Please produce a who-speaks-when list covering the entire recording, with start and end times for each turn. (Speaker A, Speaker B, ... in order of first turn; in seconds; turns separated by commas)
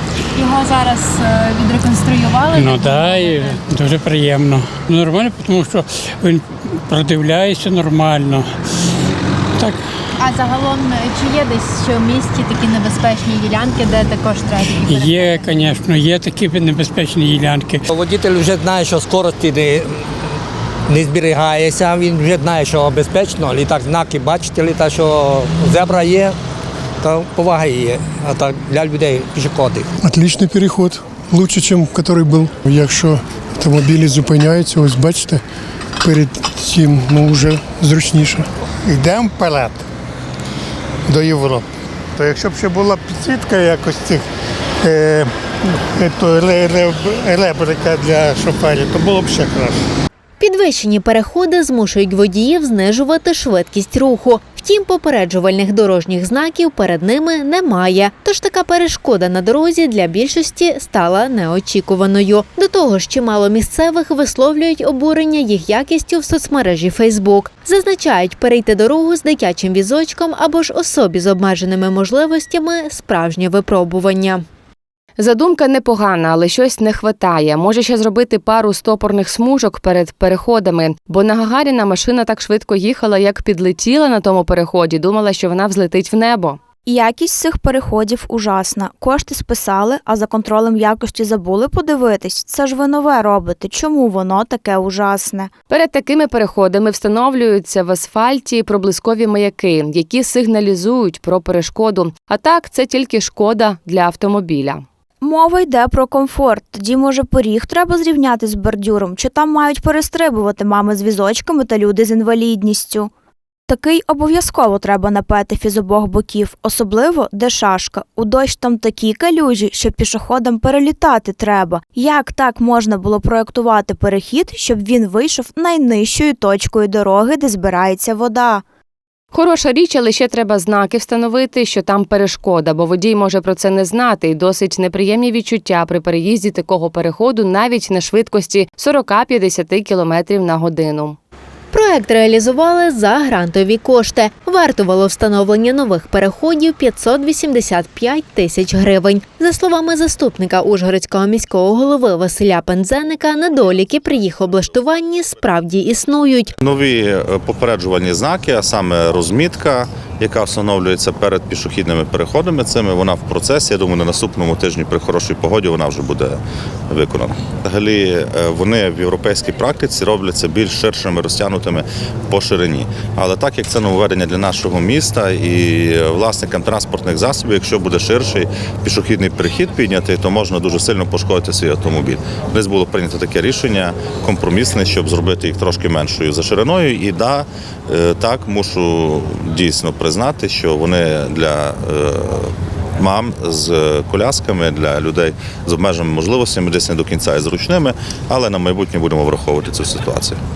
Speaker A: 0.3-3.6, Speaker B: 2.5-8.5, Speaker A: 10.2-15.6, Speaker B: 14.8-17.8, Speaker C: 17.9-20.0, Speaker C: 20.9-26.4, Speaker C: 27.0-29.9, Speaker D: 30.0-35.4, Speaker D: 36.0-38.5, Speaker E: 38.8-39.8, Speaker E: 41.1-44.2, Speaker E: 44.8-45.3, Speaker E: 45.9-49.8, Speaker F: 50.4-74.4, Speaker G: 75.2-86.6, Speaker H: 86.8-95.5, Speaker G: 95.7-104.8, Speaker H: 105.2-113.1, Speaker H: 113.7-128.6, Speaker G: 129.3-141.2, Speaker F: 141.7-156.5, Speaker I: 156.6-200.4